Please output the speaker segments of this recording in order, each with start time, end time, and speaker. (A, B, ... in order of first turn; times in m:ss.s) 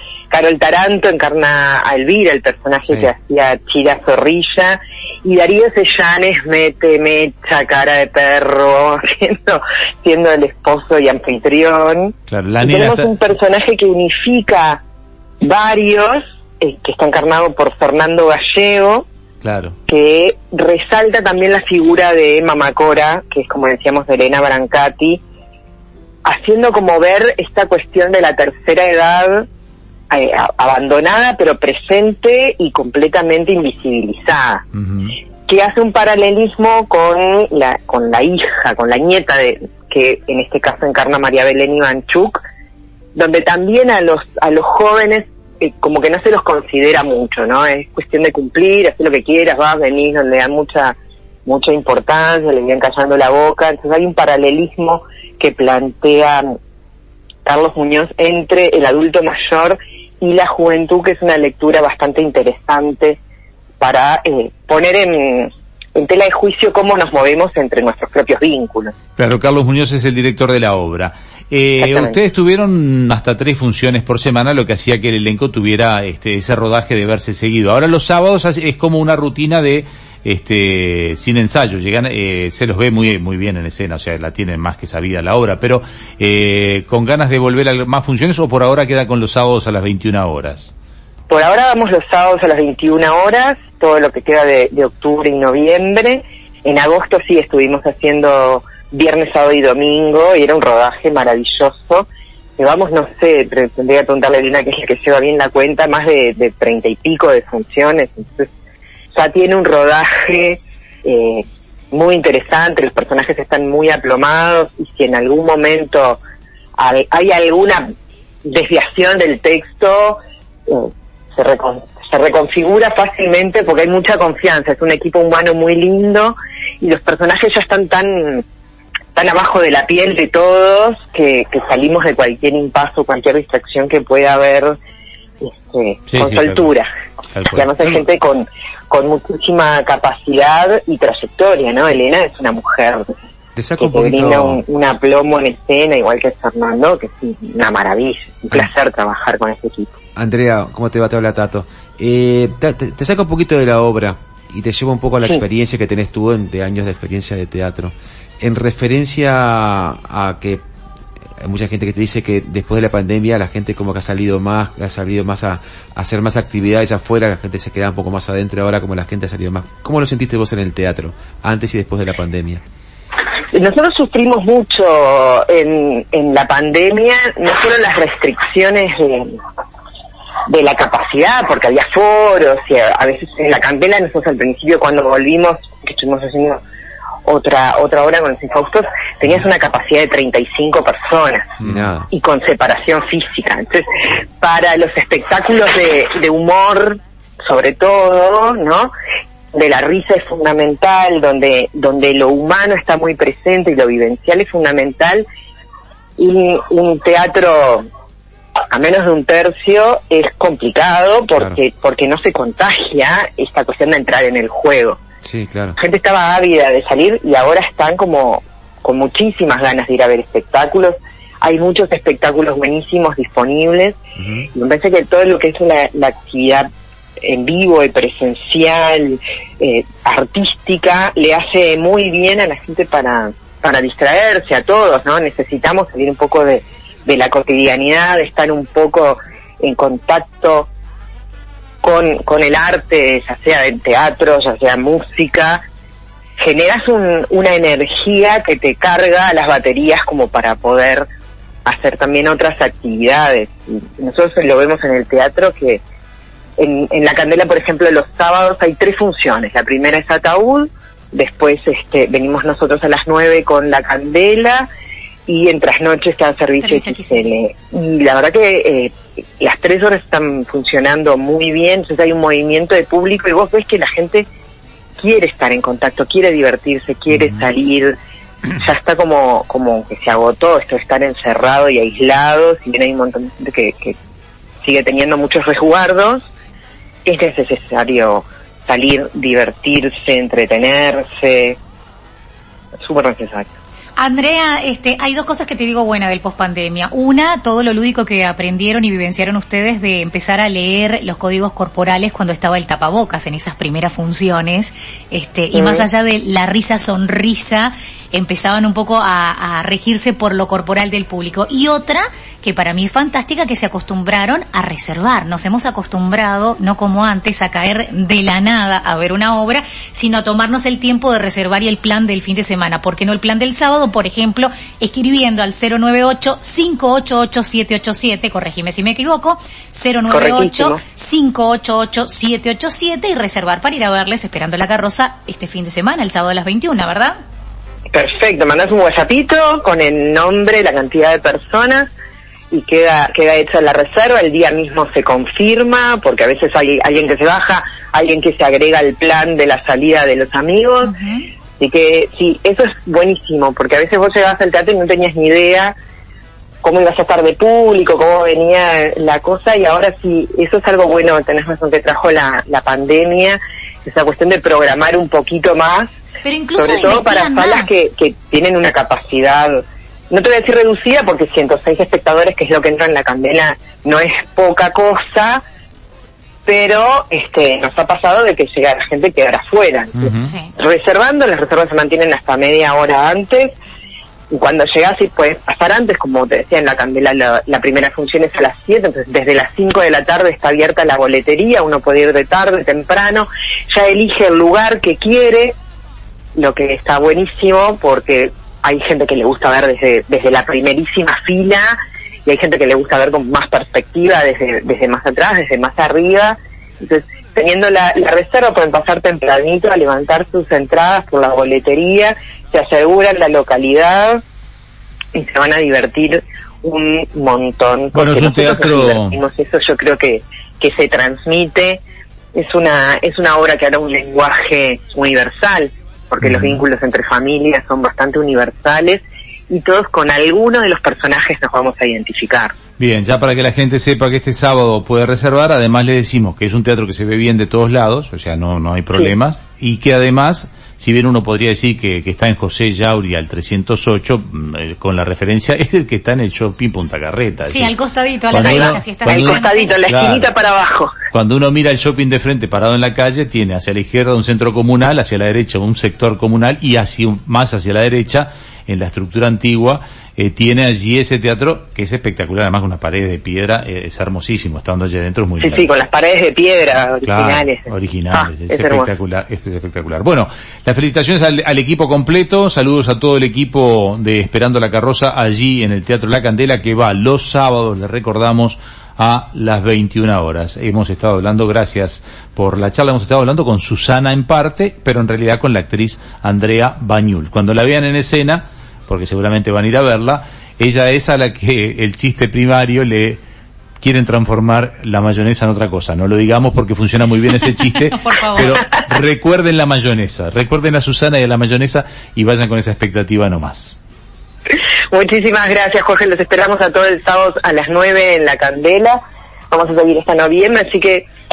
0:00.3-0:14.8 A
0:12.3-0:13.1 B
0:15.4-0:19.1 A
0:19.4-0:19.8 B
0:19.9-0:25.2 A
0:26.2-0:29.5 A
0:30.1-0:34.6 A
0:34.8-0:35.2 B
0:35.5-0:42.4 A
0:43.2-0:56.6 A
0:57.4-1:03.2 A
1:03.8-1:08.9 A
1:09.2-1:30.7 B
1:11.8-1:12.2 A
1:31.3-1:48.5 A
1:49.1-1:56.2 A
1:56.8-1:57.9 A
1:58.4-2:08.4 A
2:09.2-2:14.8 A
2:15.4-2:16.9 A
2:16.1-2:16.7 B
2:17.3-2:18.0 B
2:17.5-2:23.1 A
2:23.6-2:24.6 C
2:23.8-2:29.9 A
2:30.2-2:40.6 C
2:41.4-2:52.6 C
2:53.5-2:59.3 A
3:00.5-3:06.6 A
3:07.2-3:11.6 A
3:11.6-3:12.1 C
3:12.1-3:13.8 A
3:14.4-3:18.9 A
3:19.5-3:25.2 A
3:26.2-3:27.8 A
3:28.7-3:35.0 A
3:35.2-3:35.8 C
3:35.8-3:44.0 A
3:44.2-3:44.5 C
3:44.5-3:46.7 A
3:47.2-4:00.7 A
4:01.8-4:05.6 A
4:06.4-4:11.1 A
4:11.6-4:15.8 A
4:16.6-4:24.7 A
4:25.3-4:34.3 A
4:26.6-4:27.4 D
4:35.0-4:37.9 A
4:38.6-4:44.0 A
4:44.6-4:46.3 A
4:47.0-4:51.6 A
4:52.8-4:53.6 A
4:54.0-5:37.1 D
5:05.5-5:05.9 A
5:30.1-5:30.8 A
5:37.9-5:41.9 A
5:42.5-5:50.9 A
5:50.8-5:51.3 D
5:51.6-5:55.7 A
5:56.6-6:05.9 A
6:06.2-6:07.8 D
6:06.6-6:15.4 A
6:16.5-6:23.6 A
6:20.0-6:20.3 B
6:24.3-6:35.6 A
6:36.4-6:54.2 A
6:55.2-7:01.8 A
6:57.9-6:59.2 B
7:02.4-7:12.5 A
7:06.2-7:06.6 B
7:12.8-7:27.7 B
7:27.5-7:29.8 D
7:28.3-7:30.3 B
7:28.4-7:30.9 A
7:31.1-7:45.7 B
7:45.4-7:48.9 A
7:47.0-8:13.2 B
8:13.8-8:23.8 B
8:17.4-8:18.7 D
8:24.9-8:29.0 A
8:29.5-8:31.1 A